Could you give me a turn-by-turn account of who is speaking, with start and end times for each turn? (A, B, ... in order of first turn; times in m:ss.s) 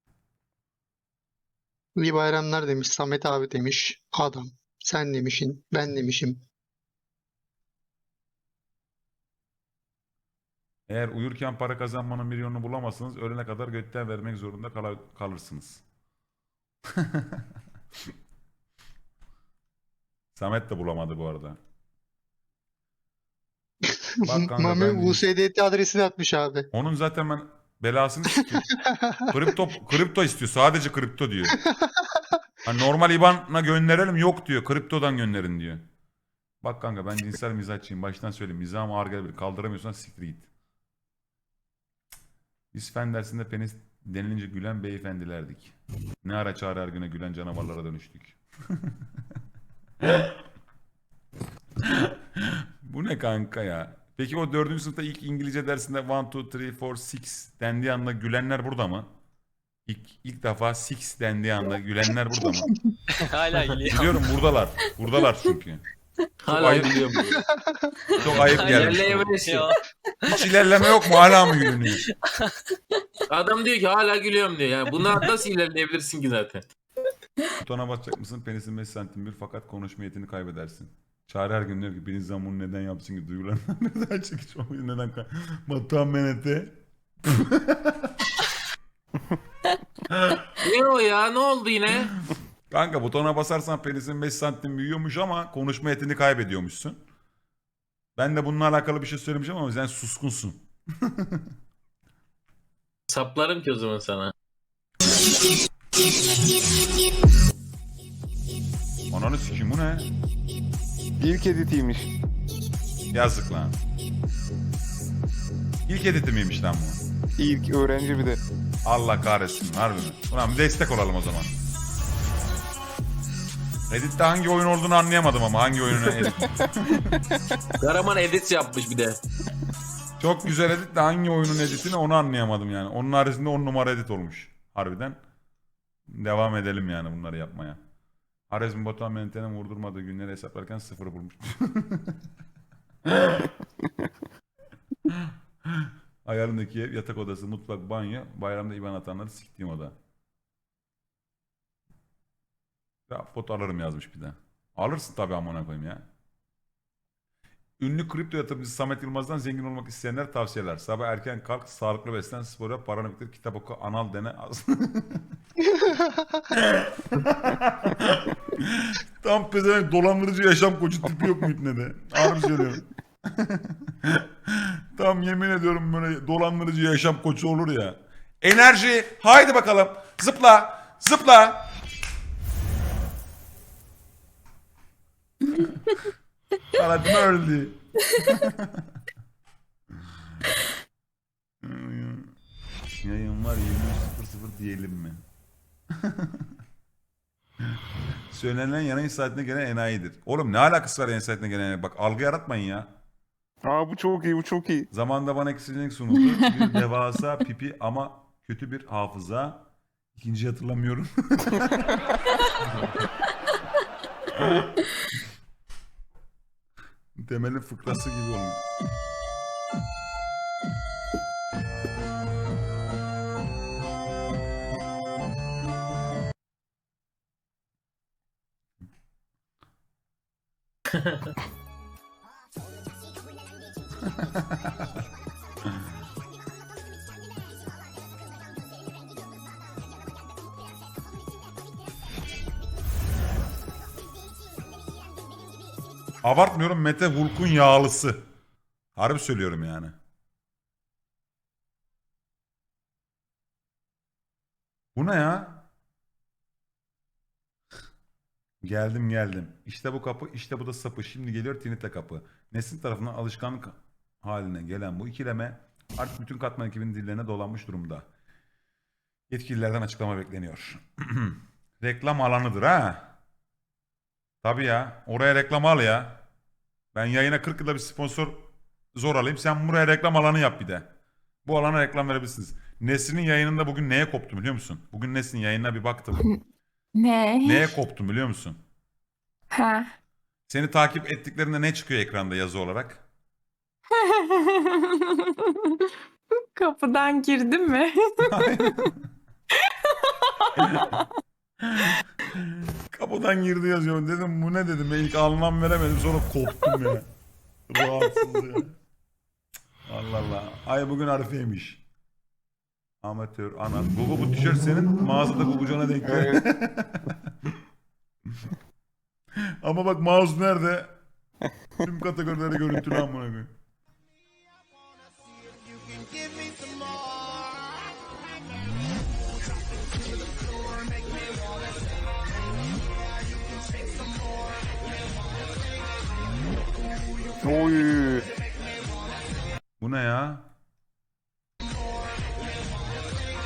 0:02.0-0:06.4 A
0:10.9-0:15.8 B
0:17.0-0:17.4 B
0:20.3-0:21.6 B
0:23.8-0:26.7 A
0:24.2-0:25.2 B
0:26.7-0:28.7 B
0:28.8-0:29.2 A
0:29.3-0:31.6 B
0:31.5-0:32.4 A
0:32.6-0:35.8 B
0:36.6-0:40.5 B
0:42.7-0:48.4 B
0:50.0-0:50.4 B
0:51.8-0:52.1 B
0:52.8-0:59.1 B
0:59.9-1:02.7 B
1:03.2-1:04.2 C
1:03.9-1:05.8 B
1:06.4-1:07.4 D
1:06.5-1:06.9 B
1:07.3-1:07.9 A
1:08.2-1:09.3 B
1:08.2-1:09.7 D
1:08.3-1:10.3 C
1:10.3-1:12.0 B
1:13.3-1:16.6 D
1:17.6-1:28.2 B
1:30.1-1:30.4 B
1:30.6-1:32.1 D
1:32.7-1:37.0 B
1:38.2-1:41.5 B
1:43.1-1:44.3 D
1:49.1-1:50.1 B
1:51.2-1:52.1 E
1:53.1-1:53.7 B
1:55.9-1:57.0 B
1:57.4-1:58.4 E
1:58.8-2:01.5 B
2:03.9-2:06.3 B
2:06.0-2:07.4 E
2:07.8-2:09.2 D
2:10.2-2:15.2 B
2:16.1-2:17.8 B
2:18.5-2:22.2 B
2:23.0-2:23.5 B
2:25.1-2:30.0 B
2:33.1-2:36.0 B
2:37.8-2:45.2 B
2:45.6-2:46.4 A
2:46.5-3:01.7 B
3:06.7-3:08.8 B
3:11.6-3:12.3 B
3:13.0-3:15.2 B
3:15.9-3:16.4 B
3:18.3-3:22.9 B
3:23.7-3:24.9 E
3:24.9-3:29.6 B
3:30.2-3:31.9 B
3:34.3-3:34.7 B
3:37.2-3:38.6 B
3:50.9-3:51.3 D
4:06.2-4:08.2 B
4:09.0-4:10.0 B
4:15.0-4:15.6 B
4:18.6-4:28.0 B
4:29.3-4:33.1 B
4:34.4-4:36.2 B
4:36.9-4:40.9 B
4:41.4-4:46.2 B
4:46.9-4:47.7 F
4:47.4-4:48.6 B
4:49.5-4:49.9 F
4:50.5-4:53.0 B
4:53.9-4:55.9 F
4:56.5-4:58.5 F
4:58.3-4:59.0 B
5:00.6-5:00.9 F
5:00.6-5:01.0 B
5:01.6-5:07.1 B
5:07.7-5:08.7 B
5:09.8-5:11.8 B
5:13.0-5:17.1 B
5:16.0-5:16.4 E
5:19.6-5:21.0 B
5:21.8-5:23.5 B
5:22.6-5:23.0 E
5:37.4-5:38.3 E
5:39.8-5:40.4 B